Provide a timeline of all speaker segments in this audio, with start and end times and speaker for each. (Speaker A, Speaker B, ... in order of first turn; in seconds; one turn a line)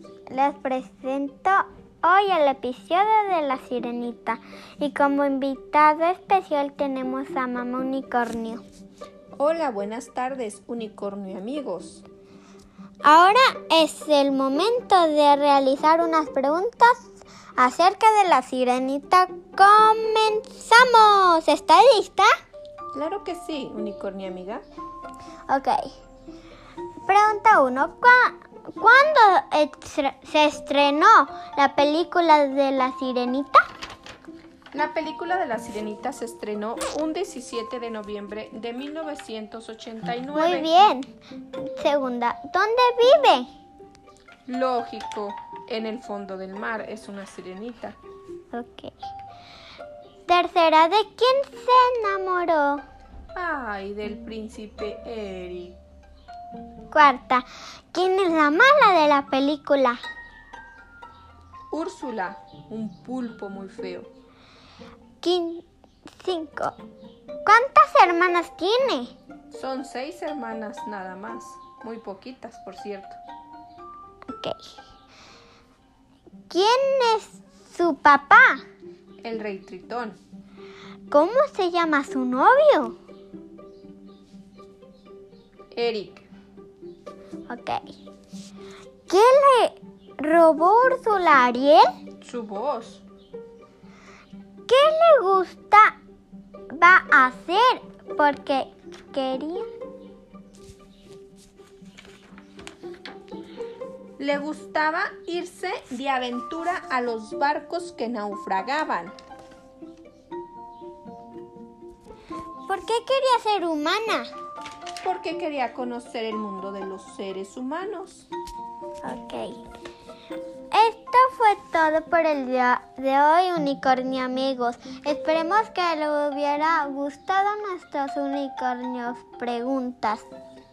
Speaker A: 0.3-8.6
Speaker B: 9.3-12.0
Speaker A: 13.0-22.3
Speaker B: 22.9-24.6
Speaker A: 25.5-25.9
Speaker A: 27.0-33.6
Speaker B: 34.7-40.7
Speaker A: 40.4-43.5
Speaker B: 44.5-48.0
Speaker A: 48.5-48.9
Speaker A: 50.3-52.8
Speaker B: 53.3-55.8
Speaker A: 56.9-60.0
Speaker B: 61.7-64.1
Speaker A: 65.2-65.6
Speaker A: 66.2-66.8
Speaker A: 67.4-69.1
Speaker B: 69.5-73.2
Speaker A: 74.3-74.5
Speaker A: 76.5-78.6
Speaker B: 79.2-80.2
Speaker A: 81.1-83.0
Speaker B: 85.7-86.3
Speaker A: 87.5-87.8
Speaker A: 89.1-91.9
Speaker B: 92.2-93.0
Speaker A: 94.7-95.9
Speaker A: 96.7-99.7
Speaker B: 104.2-109.1
Speaker A: 112.7-114.3
Speaker B: 115.0-118.3
Speaker A: 119.0-119.6
Speaker A: 120.7-130.2